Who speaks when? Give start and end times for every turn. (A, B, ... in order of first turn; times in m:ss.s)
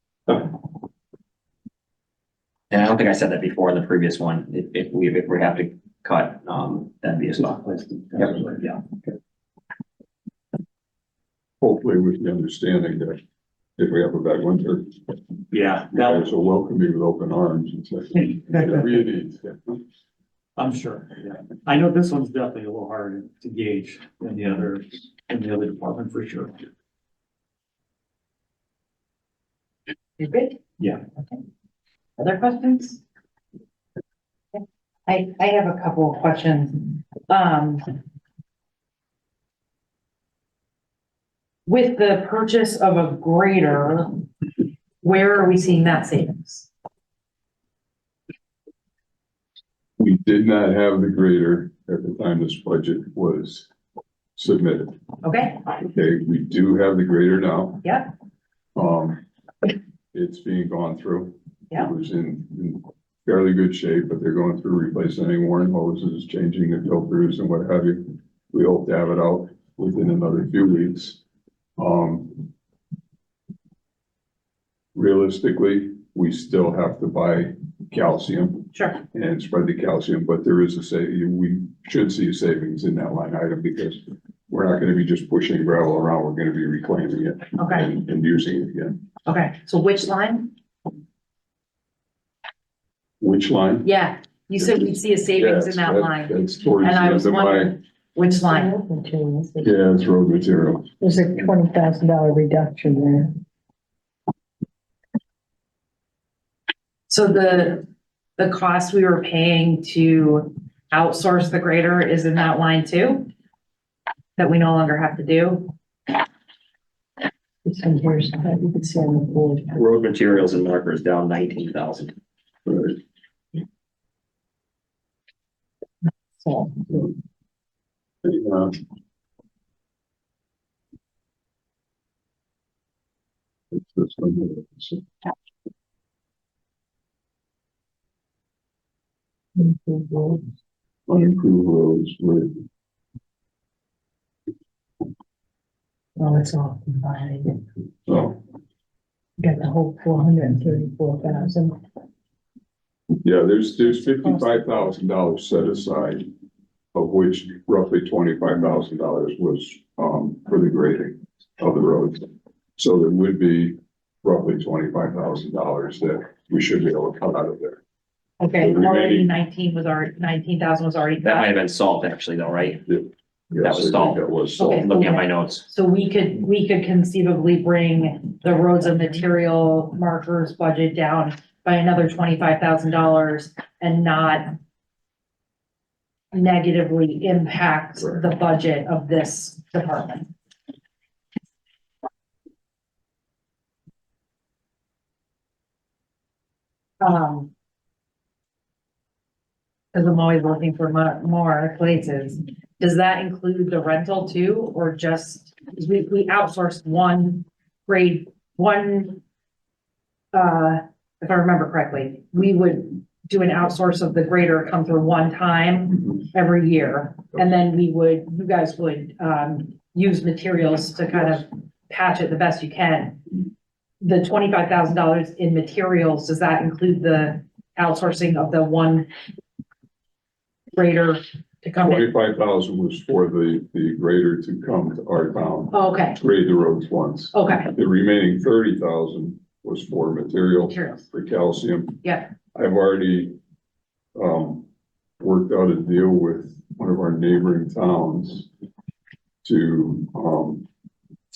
0:02.7-0:07.7 A
0:07.4-0:08.8 B
0:08.2-0:08.8 A
0:11.6-0:13.2 C
0:13.8-0:15.0 C
0:15.5-0:16.2 B
0:16.0-0:19.8 C
0:20.6-0:26.6 B
0:30.2-0:30.6 D
0:32.2-0:33.0 D
0:34.5-0:37.9 D
0:41.7-0:44.2 D
0:45.0-0:46.7 D
0:50.0-0:53.7 C
0:54.4-0:55.0 C
0:55.2-0:55.6 D
0:55.8-0:57.8 C
0:57.8-0:58.1 D
0:58.8-0:59.2 C
1:00.1-1:11.2 C
1:11.8-1:12.5 C
1:15.0-1:29.0 C
1:18.7-1:19.0 D
1:27.6-1:27.9 D
1:29.3-1:30.5 D
1:33.2-1:33.9 C
1:33.8-1:38.7 D
1:34.6-1:37.8 C
1:38.2-1:39.7 E
1:39.6-1:40.9 C
1:41.0-1:43.3 E
1:47.1-1:47.8 D
1:48.4-1:53.3 D
1:54.4-1:55.7 D
1:57.6-1:59.8 E
1:59.7-2:02.2 A
2:02.7-2:03.0 C
2:06.4-2:06.7 E
2:08.2-2:08.8 C
2:13.7-2:15.0 C
2:19.6-2:20.5 E
2:21.1-2:22.6 C
2:26.2-2:27.6 E
2:28.1-2:28.4 C
2:29.4-2:31.8 E
2:33.2-2:36.3 C
2:36.9-2:47.8 C
2:48.4-2:51.5 D
2:48.6-2:49.3 C
2:51.2-2:52.8 A
2:52.9-2:54.9 C
2:53.6-2:55.7 A
2:54.6-3:04.6 D
3:06.3-3:10.3 D
3:17.0-3:17.5 D
3:19.9-3:29.2 D
3:30.3-3:43.2 D
3:44.0-3:49.1 D
3:50.7-3:52.1 D
3:51.8-4:03.4 C
3:55.7-3:56.2 D
3:57.3-3:57.7 D
4:00.7-4:01.0 D
4:02.0-4:02.3 D
4:04.2-4:04.7 C
4:05.2-4:08.5 C
4:09.4-4:10.7 C